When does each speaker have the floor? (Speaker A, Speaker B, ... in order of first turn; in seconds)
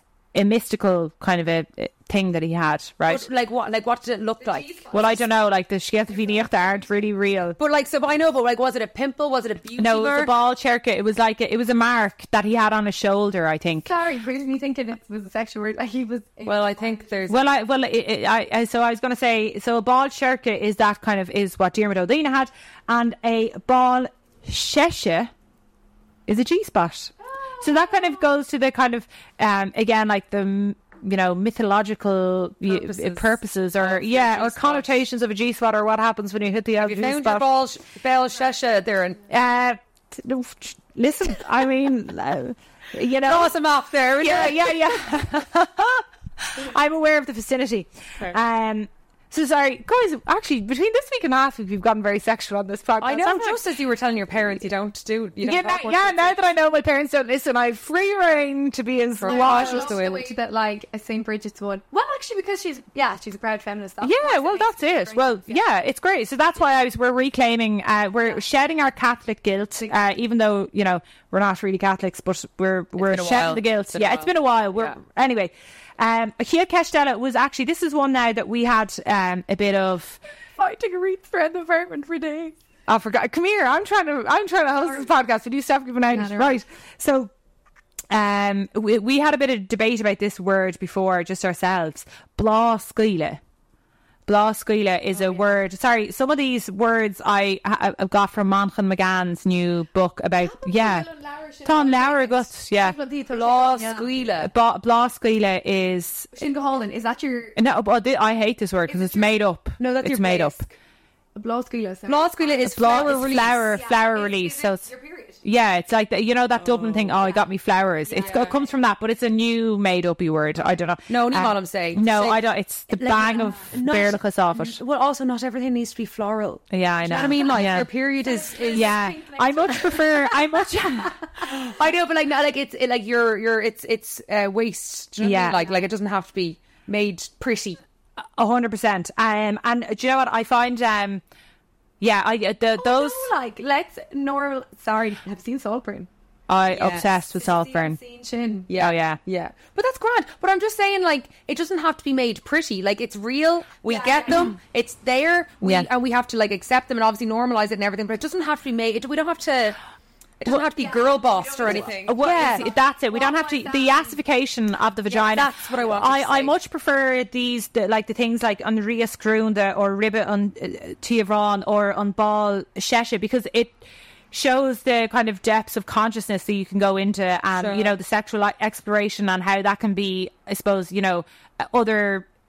Speaker A: 0.3-3.2, 4.9-7.6, 9.8-13.9, 17.3-25.3, 26.3-37.6, 39.3-43.5, 44.1-53.6, 55.4-60.0, 64.0-80.2, 82.9-87.3, 88.1-93.4, 94.2-101.1, 101.6-103.0, 104.4-106.4, 107.5-110.7, 112.6-114.9, 115.4-124.8, 126.7-127.9, 128.7-131.2, 135.2-135.6, 138.4-141.2, 142.0-143.3, 146.5-148.0, 148.8-149.2, 155.6-155.9, 161.7-182.3
Speaker B: 3.0-5.0, 7.6-10.3, 16.4-17.4, 32.6-34.9, 36.8-39.2, 43.2-45.0, 53.0-56.4, 59.2-60.4, 73.0-75.0, 103.3-104.5, 109.8-110.7, 112.1-113.7, 116.6-117.0, 118.2-118.5, 121.1-128.9, 131.4-137.8, 146.7-147.1, 148.7-159.8, 160.4-162.7, 165.1-166.5, 177.5-177.9
Speaker C: 4.4-5.3, 6.1-7.1, 13.8-17.3, 27.2-28.3, 59.2-65.6, 80.6-82.5, 84.7-85.1, 86.1-86.6, 95.1-95.5, 100.4-104.1, 106.3-107.5, 108.9-109.4, 111.3-115.4, 117.1-117.5, 118.0-118.7, 128.2-131.2, 142.7-146.1, 147.3-148.7, 153.8-154.6, 160.8-164.2